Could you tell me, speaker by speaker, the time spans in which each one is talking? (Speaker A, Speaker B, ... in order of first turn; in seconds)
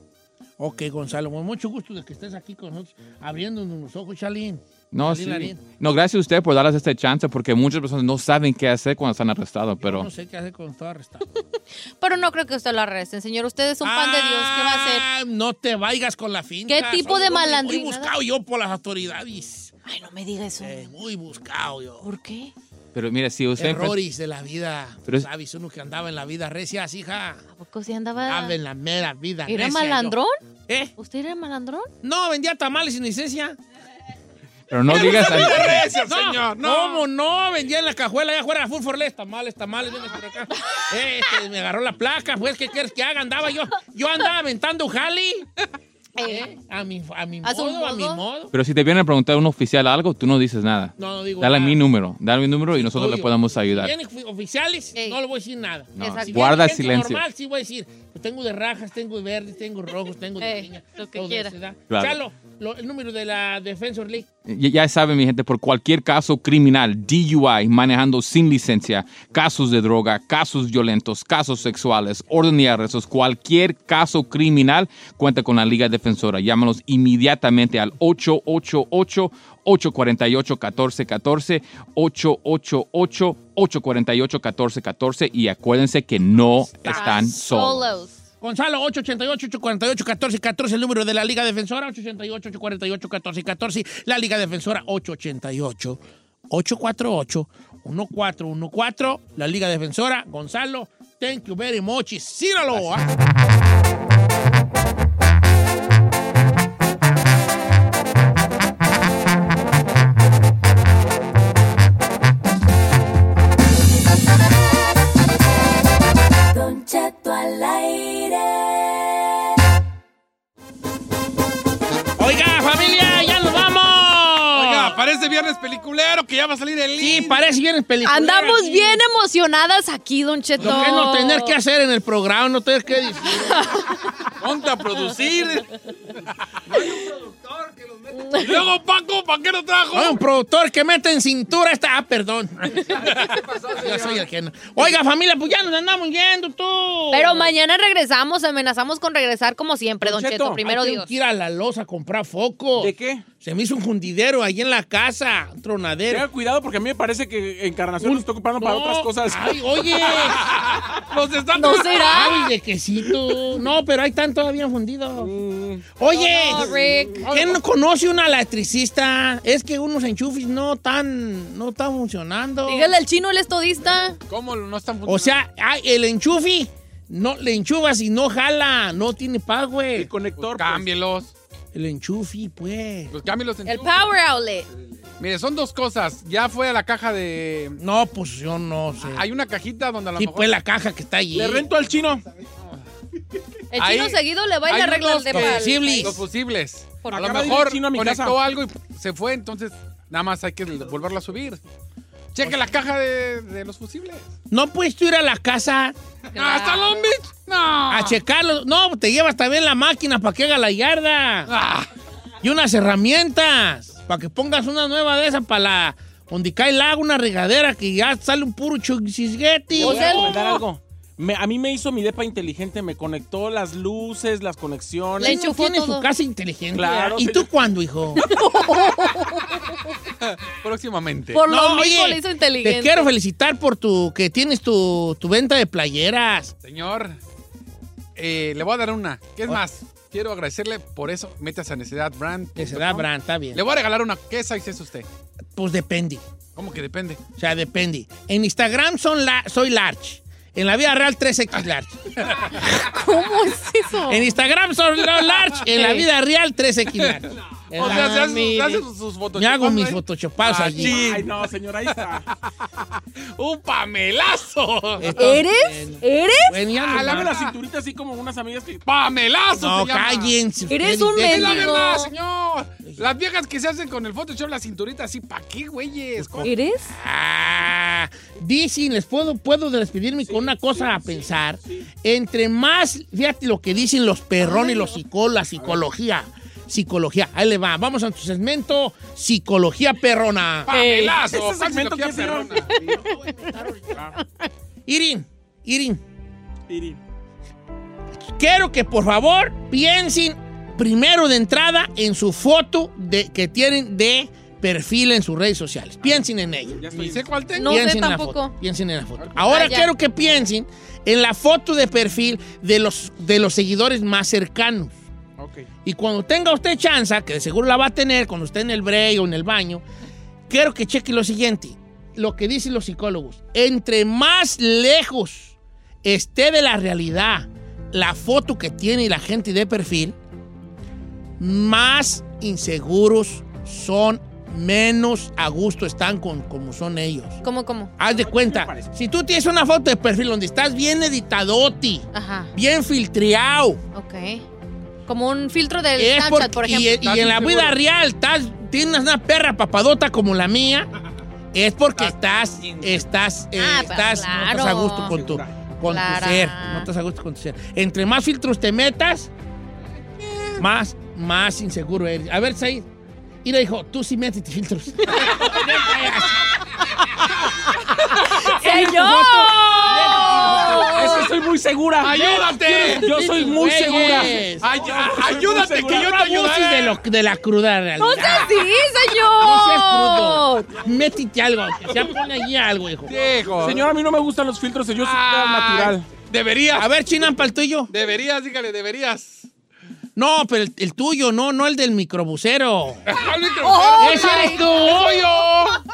Speaker A: 0.6-5.6, 9.8-11.2, 13.8-19.7, 20.6-22.1, 23.6-27.4, 28.2-30.2, 30.7-30.9, 32.0-33.6, 34.9-45.5, 46.2-48.5, 51.0-51.8, 52.7-64.2, 86.8-87.3, 88.4-103.1, 122.2-124.9, 127.0-129.0, 130.6-133.7, 139.9-147.5, 150.6-156.3, 158.0-160.5, 162.1-165.3, 165.9-172.9, 175.1-180.1, 181.7-183.1, 187.8-189.2, 190.2-191.7, 195.3-196.2, 204.5-205.9, 207.9-211.5, 212.4-220.3, 225.2-228.2, 231.4-236.5, 242.6-243.6, 245.6-246.2, 247.4-252.2, 254.1-258.4, 259.3-261.1, 265.0-267.3, 269.5-271.9, 276.2-290.7, 293.0-294.2, 294.9-296.0, 298.2-306.8, 307.6-315.0, 315.8-319.8, 320.5-330.2, 331.4-337.4, 338.0-343.8, 345.9-350.9, 351.5-359.3, 360.6-362.9, 363.4-366.4, 368.1-371.1, 372.7-374.8, 375.8-378.6, 379.4-383.1, 386.8-387.9, 390.1-393.0, 394.0-395.2
Speaker B: 4.9-10.1, 22.9-24.0, 34.7-35.8, 48.5-53.9, 56.0-57.2, 61.9-62.2, 64.5-87.9
Speaker C: 12.0-15.0, 16.7-18.1, 19.9-20.9, 22.0-22.5, 27.5-28.6, 29.5-30.4, 31.0-31.9, 46.2-46.5, 47.4-48.2, 56.0-56.7, 60.4-61.5, 86.8-88.2, 128.0-131.6, 133.5-133.9, 138.1-138.6, 147.1-151.1, 161.5-162.5, 166.1-167.3, 172.7-174.2, 183.7-184.7, 193.7-196.2, 206.3-207.1, 219.8-220.6, 225.2-226.1, 228.2-229.6, 231.3-233.1, 252.7-254.3, 255.7-256.1, 258.1-258.8, 265.1-266.6, 270.7-272.1, 276.4-276.9, 284.4-285.0, 290.7-291.2, 292.7-293.0, 307.5-308.5, 309.4-309.9, 337.4-337.9, 342.1-342.5, 343.9-344.4, 345.1-347.1, 353.6-355.2, 355.9-356.9, 368.2-371.3, 378.0-380.8, 393.6-395.3
Speaker D: 34.9-37.0, 124.5-127.4, 130.6-130.9, 134.4-135.7, 138.4-140.2, 143.2-144.2, 160.1-162.3, 167.3-167.6, 174.3-175.4, 180.4-181.3, 183.1-184.1, 185.2-187.8, 189.0-190.6, 193.8-201.6, 202.3-204.3, 206.3-208.2, 211.5-211.9, 230.2-231.4, 236.6-237.2, 238.2-245.1, 246.6-247.2, 257.7-261.3, 261.9-262.4, 263.3-265.3, 266.9-267.5, 268.9-270.4, 271.2-276.5, 290.7-292.9, 306.9-307.8, 347.0-347.8, 370.3-370.6, 372.0-373.1, 374.1-377.0, 383.1-383.9, 385.0-386.9, 387.9-389.5, 393.1-395.8
Speaker E: 116.5-119.2
Speaker F: 150.0-150.6, 152.8-153.2, 156.1-159.6, 165.2-166.0, 179.9-180.9, 191.3-192.2, 197.1-198.4, 219.8-225.4, 226.7-227.5, 260.4-262.2, 266.8-268.8, 280.2-281.8, 285.6-285.8, 291.2-293.0, 296.7-297.0, 306.7-307.2, 315.4-315.7, 338.1-338.9, 355.1-355.5, 370.9-376.1, 383.6-386.1